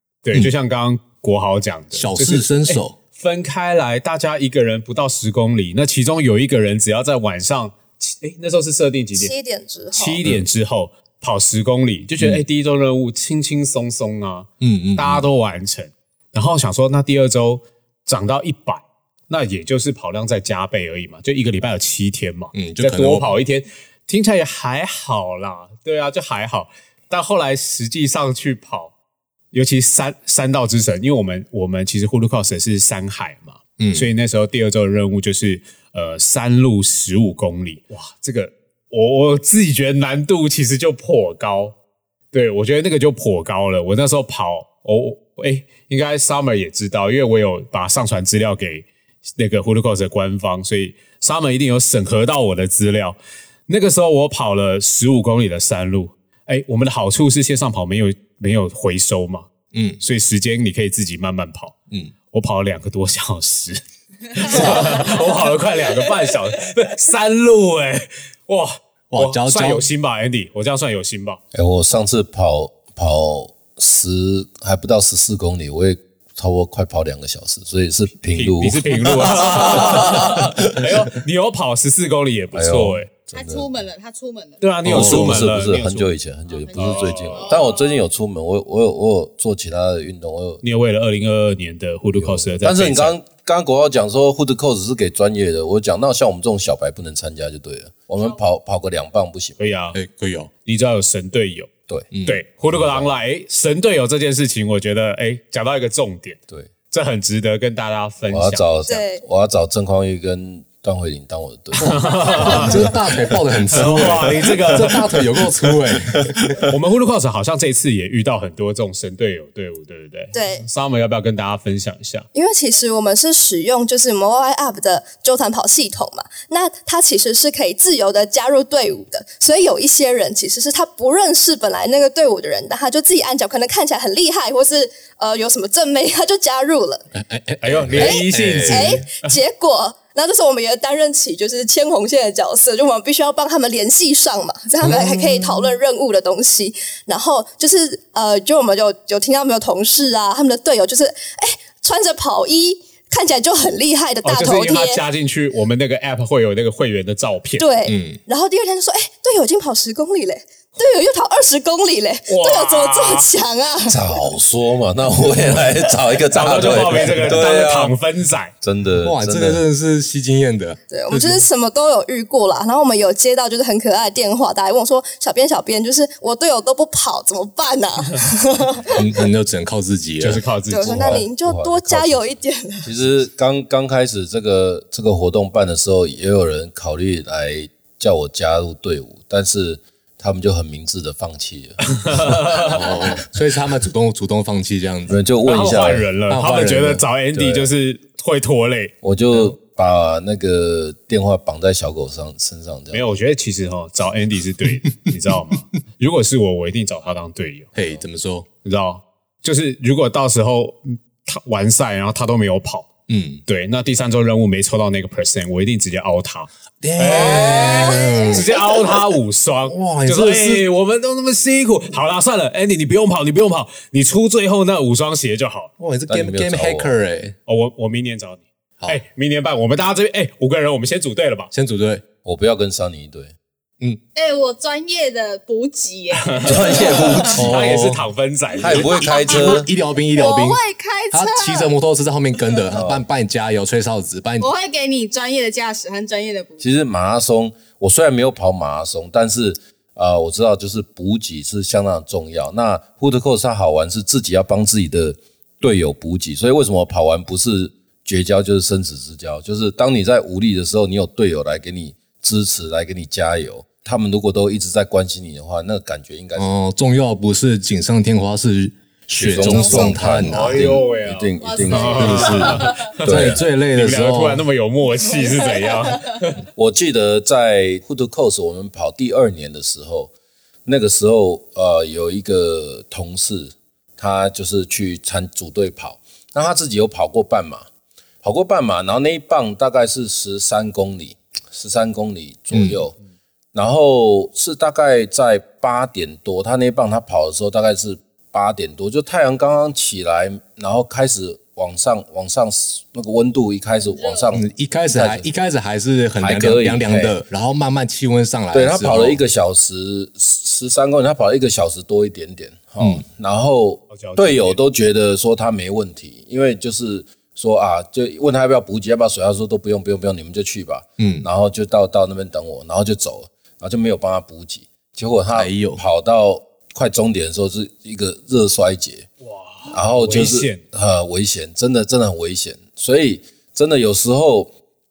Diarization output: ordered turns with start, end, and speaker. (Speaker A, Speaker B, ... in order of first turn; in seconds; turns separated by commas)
Speaker A: 0.2-9.3, Speaker B: 1.9-3.0, Speaker C: 9.2-10.2, Speaker A: 9.9-28.9, Speaker B: 14.6-15.3, Speaker B: 22.5-23.4, Speaker A: 29.5-41.8, Speaker B: 33.8-34.1, Speaker A: 42.3-48.9, Speaker A: 49.4-59.5, Speaker B: 59.7-60.0, Speaker A: 60.0-61.8, Speaker A: 62.3-71.4, Speaker B: 64.5-65.0, Speaker B: 69.1-69.9, Speaker D: 71.5-81.1, Speaker A: 78.3-83.1, Speaker D: 82.5-83.8, Speaker E: 83.3-84.8, Speaker A: 84.6-86.1, Speaker D: 84.8-90.6, Speaker B: 84.8-85.5, Speaker E: 86.5-88.0, Speaker A: 86.7-87.5, Speaker A: 90.6-93.2, Speaker D: 92.2-99.6, Speaker A: 99.6-100.0, Speaker B: 99.9-100.5, Speaker A: 100.7-101.7, Speaker B: 102.1-102.4, Speaker A: 102.3-108.7, Speaker D: 102.7-103.1, Speaker D: 108.3-113.0, Speaker C: 108.9-109.2, Speaker A: 111.7-112.9, Speaker B: 111.9-116.6, Speaker D: 113.7-116.7, Speaker A: 113.7-115.0, Speaker A: 116.7-122.3, Speaker C: 120.3-120.7, Speaker C: 122.3-137.1, Speaker B: 137.1-139.0, Speaker A: 137.6-139.3, Speaker C: 138.0-155.0, Speaker B: 144.8-145.7, Speaker A: 154.2-157.7, Speaker C: 157.6-164.2, Speaker B: 157.9-158.2, Speaker A: 162.3-163.3, Speaker D: 163.9-167.9, Speaker A: 166.3-168.5, Speaker D: 168.6-169.6, Speaker B: 169.0-171.4, Speaker C: 170.9-179.0, Speaker B: 178.9-181.2, Speaker A: 180.2-181.2, Speaker C: 180.7-182.9, Speaker D: 180.8-193.2, Speaker A: 192.0-192.8, Speaker B: 192.6-195.2, Speaker D: 195.1-196.1, Speaker A: 195.4-199.5, Speaker B: 196.3-197.0, Speaker D: 197.3-197.7, Speaker D: 199.0-203.0, Speaker A: 202.9-207.7, Speaker B: 207.8-208.5, Speaker A: 208.6-212.9, Speaker B: 213.1-213.4, Speaker A: 213.5-225.7, Speaker B: 216.8-218.7, Speaker E: 217.4-218.2, Speaker B: 219.7-220.7, Speaker B: 225.8-227.4, Speaker D: 226.1-226.9, Speaker A: 227.5-231.5, Speaker B: 231.5-232.0, Speaker D: 232.2-233.3, Speaker E: 234.2-237.3, Speaker A: 236.2-239.0, Speaker D: 236.4-237.5, Speaker B: 237.3-238.1, Speaker D: 238.6-239.7, Speaker E: 238.7-241.7, Speaker B: 239.0-240.6, Speaker B: 241.1-244.5, Speaker D: 242.7-243.0, Speaker E: 244.4-246.7, Speaker D: 246.6-266.5, Speaker B: 266.4-270.7, Speaker D: 269.2-273.4, Speaker E: 269.4-270.0, Speaker A: 270.2-276.4, Speaker E: 271.4-273.0, Speaker B: 272.1-274.5, Speaker E: 275.1-276.2, Speaker D: 276.6-280.1, Speaker D: 280.6-287.7, Speaker D: 288.2-292.9, Speaker B: 292.5-292.8, Speaker D: 293.5-305.3, Speaker E: 303.9-304.3, Speaker B: 304.3-309.2, Speaker D: 306.2-307.2, Speaker D: 308.5-329.1, Speaker A: 313.9-314.6, Speaker B: 321.0-321.3, Speaker B: 325.3-325.8, Speaker A: 329.2-330.6, Speaker D: 329.7-334.5